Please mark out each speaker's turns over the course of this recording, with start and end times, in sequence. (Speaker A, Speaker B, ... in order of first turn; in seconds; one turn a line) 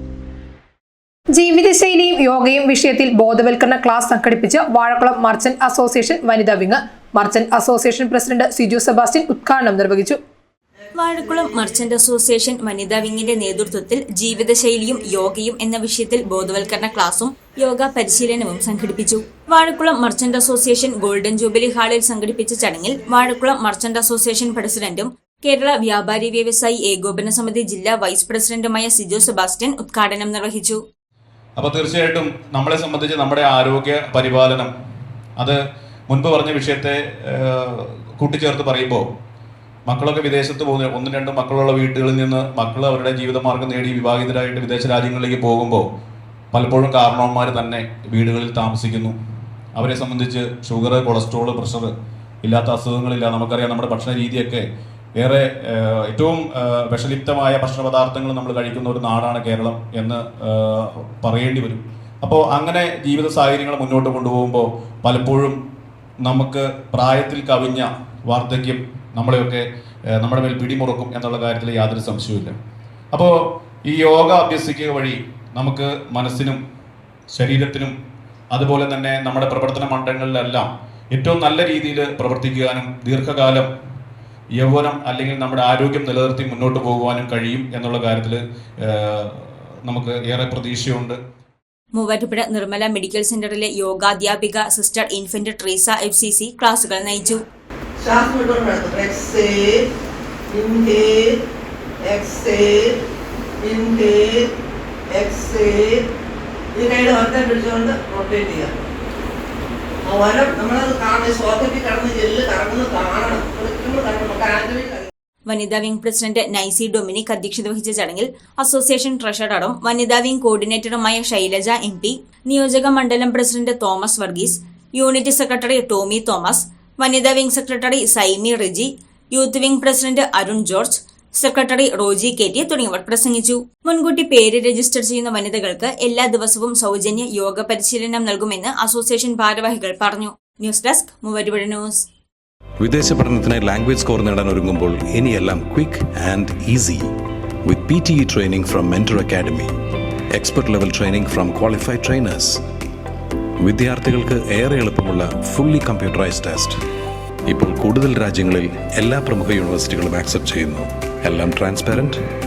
Speaker A: 1.3-10.2
Speaker B: 11.0-30.8
Speaker C: 31.6-34.7
Speaker C: 36.1-39.0
Speaker C: 39.9-45.8
Speaker C: 46.5-49.1
Speaker C: 49.8-51.9
Speaker C: 52.4-54.6
Speaker C: 55.2-65.6
Speaker C: 66.2-69.6
Speaker C: 70.2-72.5
Speaker C: 73.9-76.6
Speaker C: 77.3-77.9
Speaker C: 78.5-83.7
Speaker C: 84.6-91.2
Speaker B: 92.0-97.4
Speaker D: 98.0-99.8
Speaker D: 100.5-101.3
Speaker D: 102.0-102.9
Speaker D: 103.6-104.5
Speaker D: 105.1-106.0
Speaker D: 106.8-108.7
Speaker D: 110.1-115.1
Speaker B: 115.5-142.1
Speaker E: 142.8-147.1
Speaker E: 147.7-149.7
Speaker E: 150.3-152.6
Speaker E: 153.6-156.8
Speaker E: 157.5-162.2